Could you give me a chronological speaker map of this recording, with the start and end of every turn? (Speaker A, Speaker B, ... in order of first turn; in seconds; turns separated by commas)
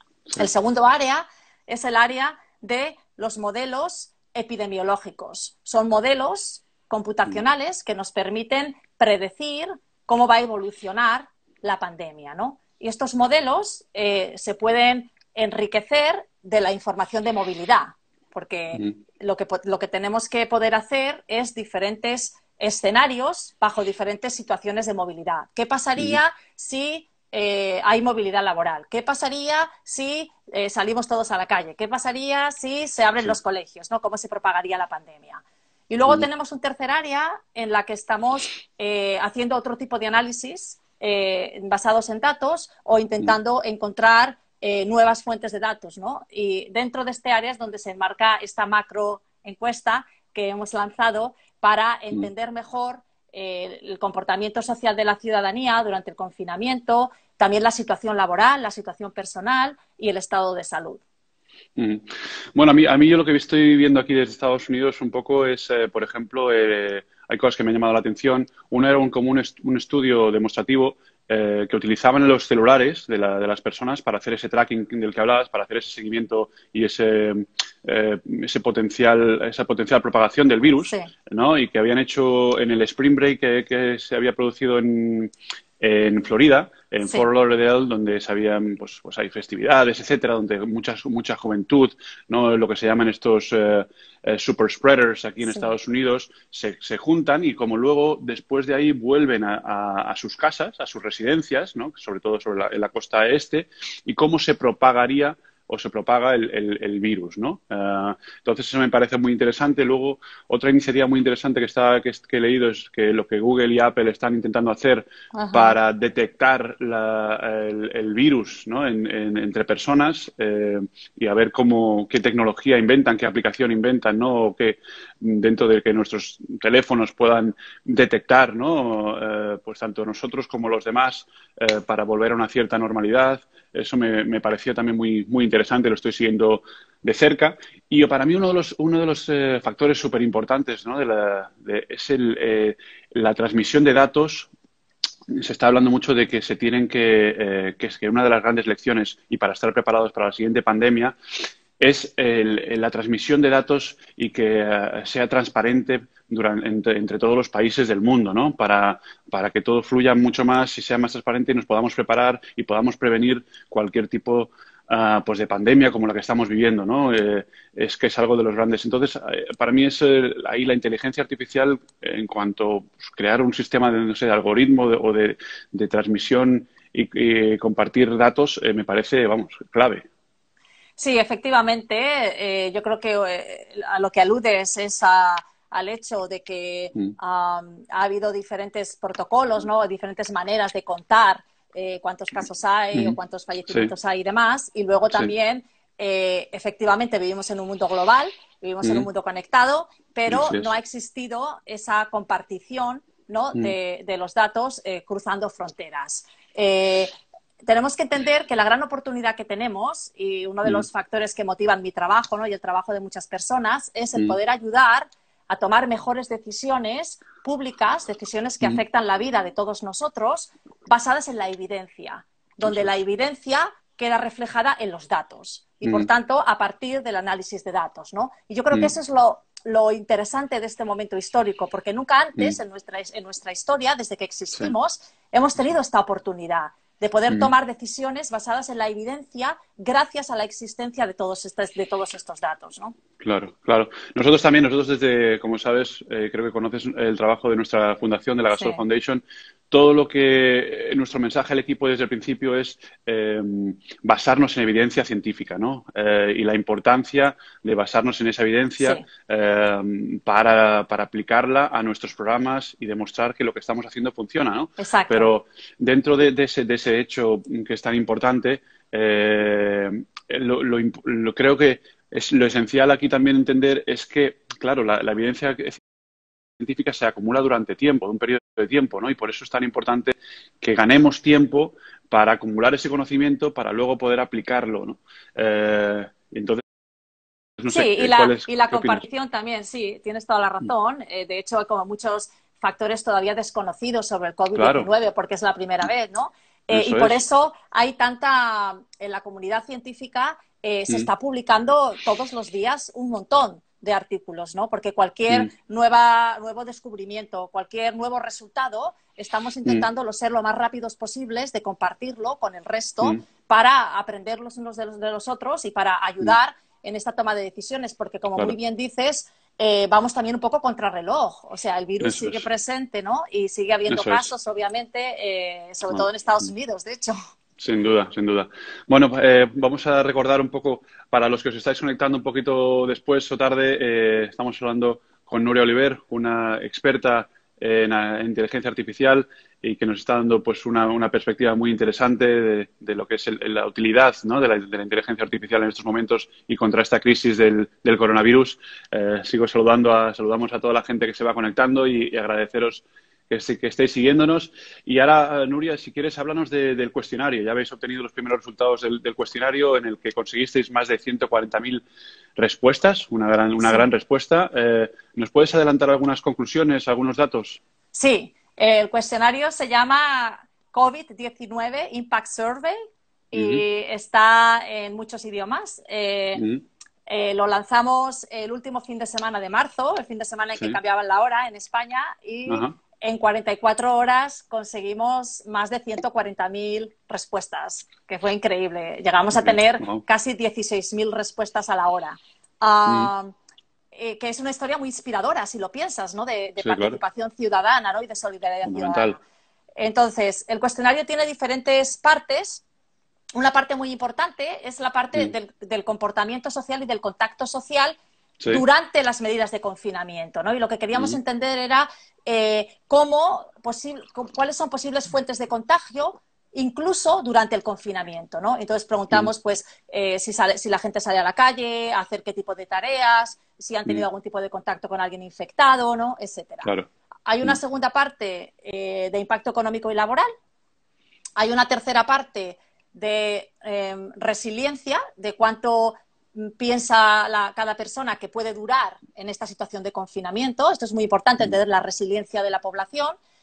Speaker A: 0.4-61.0, Speaker B: 61.8-144.5, Speaker A: 115.3-115.8, Speaker B: 145.3-151.2, Speaker B: 151.8-180.1, Speaker A: 181.0-242.9, Speaker B: 200.3-200.7, Speaker B: 225.8-226.1, Speaker B: 243.2-275.8, Speaker A: 248.5-248.8, Speaker A: 264.8-265.3, Speaker B: 276.6-286.6, Speaker B: 287.6-289.0, Speaker A: 287.7-327.2, Speaker B: 294.6-294.9, Speaker B: 296.7-297.2, Speaker B: 322.0-322.4, Speaker B: 323.9-324.3, Speaker B: 327.6-361.8, Speaker B: 362.4-367.6, Speaker A: 367.9-372.8, Speaker A: 373.3-376.4, Speaker B: 373.3-373.6, Speaker B: 376.4-376.6, Speaker A: 377.1-393.3, Speaker B: 382.5-382.8, Speaker B: 389.3-390.0, Speaker B: 392.9-393.1, Speaker A: 393.9-399.2, Speaker B: 396.6-397.0, Speaker B: 398.7-399.2, Speaker A: 399.8-402.6, Speaker A: 403.3-408.0, Speaker B: 408.4-408.6, Speaker A: 408.5-426.7, Speaker A: 427.3-430.3, Speaker A: 431.4-443.2